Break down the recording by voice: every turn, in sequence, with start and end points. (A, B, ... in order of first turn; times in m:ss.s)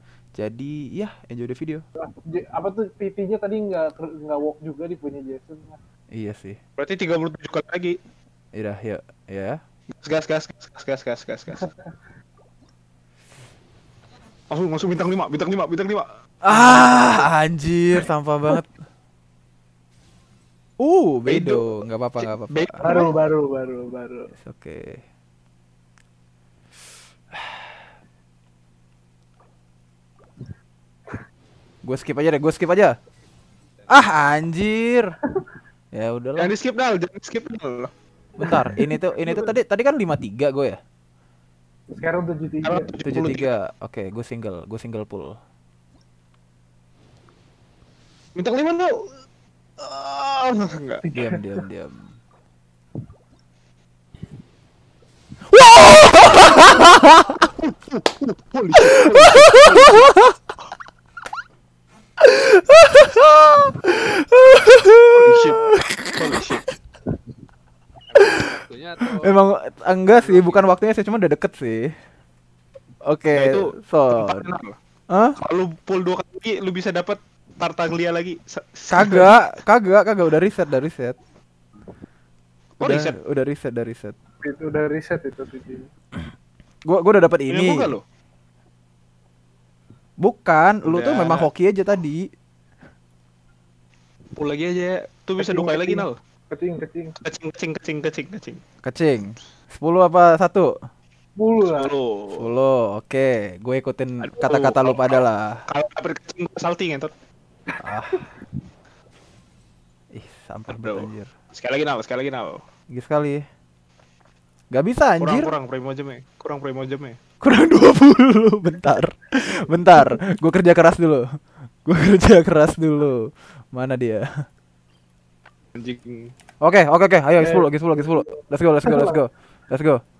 0:00.4-0:01.8 A
0:02.3-0:05.8 B
0:06.1-0:06.6 A
0:06.8-0:08.0 C
0:08.6-0:09.6 A
0:10.0-0:11.7 C
0:14.5-0:16.9 C
0:16.4-0:18.7 A
0:20.8-0:22.9 A
0:21.3-0:23.1 C
0:22.8-0:24.3 B
0:24.4-0:25.0 A
0:27.4-0:27.6 A
0:31.8-0:32.9 A
0:33.9-0:35.2 A
0:35.9-0:36.5 A
0:36.4-0:37.9 C
0:38.4-0:40.8 A
0:38.4-0:39.5 B
0:41.9-0:43.0 B
0:42.6-0:43.5 C
0:43.0-0:45.4 A
0:48.4-0:49.1 C
0:49.8-0:51.0 C
0:51.0-0:51.6 B
0:51.2-0:52.1 A
0:55.5-0:57.5 A
0:57.6-1:00.1 C
0:58.8-1:00.3 A
1:02.2-1:06.7 A
1:05.1-1:05.6 C
1:06.2-1:06.6 C
1:08.2-1:11.9 A
1:08.5-1:09.2 C
1:10.2-1:10.6 C
1:13.0-1:14.5 A
1:13.3-1:14.8 C
1:15.1-1:15.4 A
1:15.4-1:19.4 C
1:18.9-1:21.2 A
1:22.8-1:23.2 C
1:22.8-1:24.2 A
1:24.4-1:25.9 B
1:26.8-1:27.9 A
1:27.5-1:28.0 C
1:30.2-1:32.3 A
1:30.8-1:31.5 C
1:34.4-1:36.2 C
1:35.4-1:37.2 B
1:37.2-1:38.6 C
1:38.8-1:40.8 A
1:41.4-1:41.9 B
1:41.7-1:42.5 C
1:42.3-1:45.6 A
1:44.2-1:45.2 C
1:45.7-1:47.1 C
1:47.8-1:48.2 A
1:50.1-1:51.3 A
1:50.7-1:52.6 C
1:52.9-1:53.4 A
1:54.7-1:55.5 A
1:55.2-1:57.2 C
1:57.4-2:01.2 A
2:01.8-2:04.4 A
2:05.8-2:06.3 C
2:06.6-2:10.0 A
2:07.4-2:09.2 B